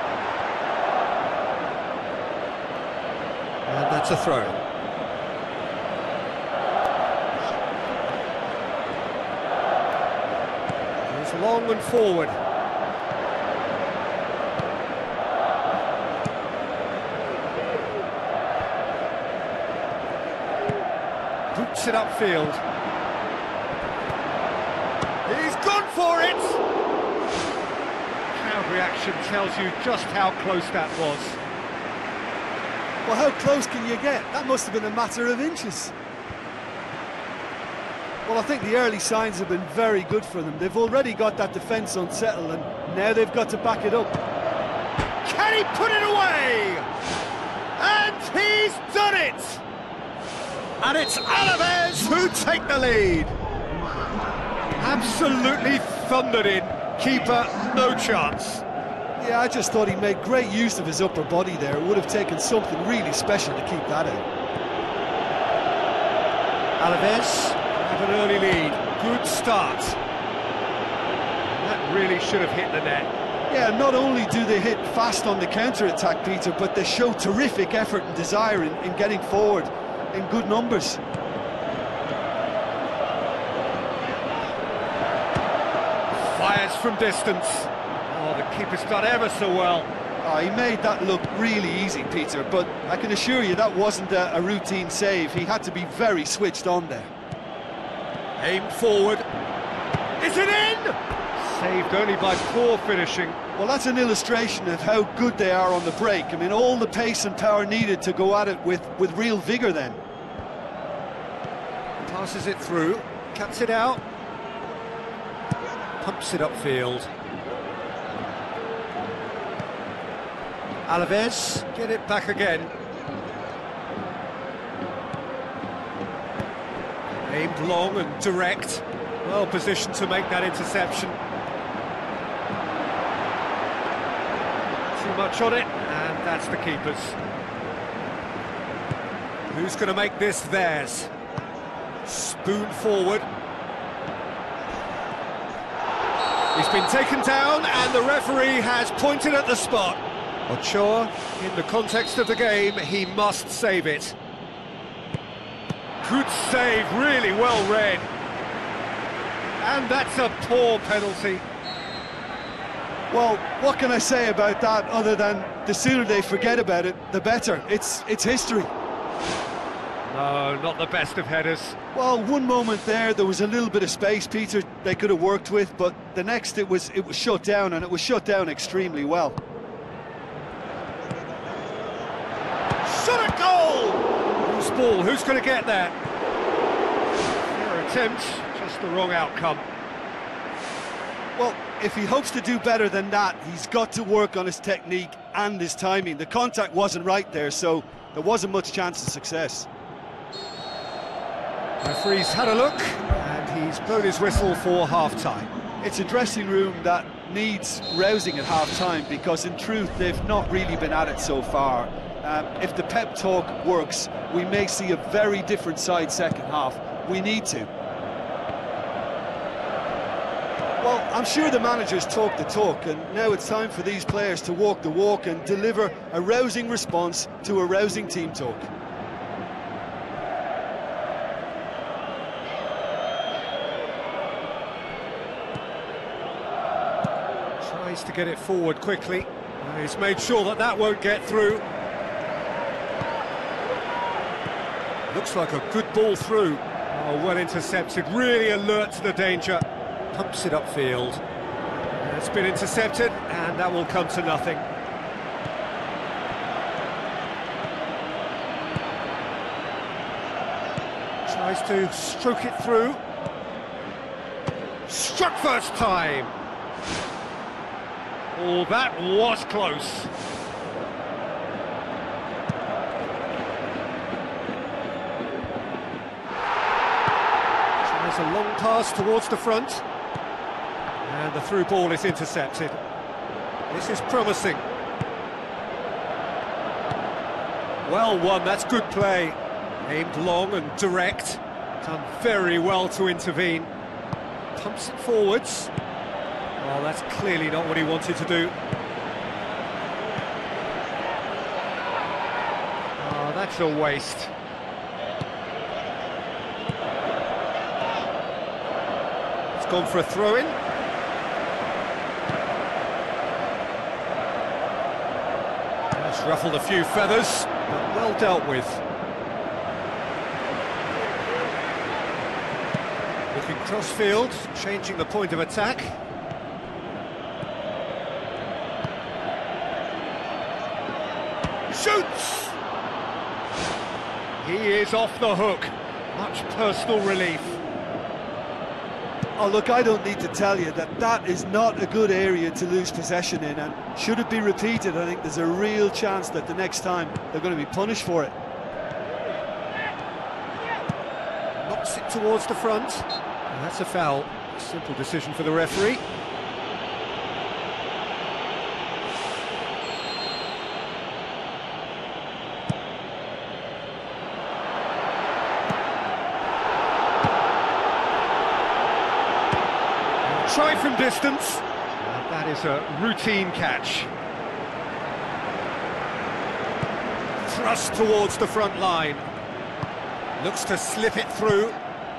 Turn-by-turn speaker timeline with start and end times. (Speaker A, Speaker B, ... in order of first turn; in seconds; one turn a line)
Speaker A: 3.6-4.6
Speaker A: 11.1-12.4
Speaker A: 21.5-22.6
Speaker A: 25.2-26.6
Speaker A: 28.3-31.4
Speaker B: 33.0-35.9
Speaker B: 38.2-44.2
Speaker A: 45.2-46.9
Speaker A: 47.8-49.6
Speaker A: 50.8-53.3
Speaker A: 54.8-58.6
Speaker B: 59.2-64.2
Speaker A: 66.8-70.0
Speaker A: 71.4-73.1
Speaker B: 73.5-81.0
Speaker A: 86.1-89.9
Speaker B: 90.2-97.1
Speaker A: 98.4-99.3
Speaker A: 100.2-103.4
Speaker B: 103.5-110.0
Speaker A: 112.0-114.0
Speaker A: 116.0-117.1
Speaker A: 120.8-122.7
Speaker A: 127.2-131.2
Speaker A: 134.9-137.2
Speaker A: 139.5-141.1
Speaker A: 142.0-143.2
Speaker A: 146.5-154.1
Speaker A: 156.0-158.1
Speaker A: 159.6-161.4
Speaker B: 163.1-168.7
Speaker A: 170.1-171.8
Speaker B: 171.9-179.4
Speaker A: 182.8-185.9
Speaker A: 187.5-189.7
Speaker B: 191.3-199.7
Speaker A: 201.8-205.5
Speaker B: 205.8-217.7
Speaker B: 220.8-228.7
Speaker A: 237.6-241.6
Speaker A: 245.1-251.2
Speaker A: 252.0-254.7
Speaker A: 261.2-263.0
Speaker A: 264.9-266.3
Speaker A: 268.3-270.1
Speaker A: 277.8-279.8
Speaker A: 281.0-282.8
Speaker A: 283.7-284.6
Speaker A: 287.8-293.7
Speaker A: 294.5-295.7
Speaker A: 296.6-298.5
Speaker A: 303.0-304.3
Speaker A: 309.5-310.6
Speaker A: 315.9-318.8
Speaker A: 323.3-326.0
Speaker A: 331.7-332.5
Speaker A: 334.4-337.6
Speaker B: 339.4-348.3
Speaker A: 351.5-356.0
Speaker A: 370.2-374.1
Speaker A: 377.4-379.2
Speaker A: 380.4-381.8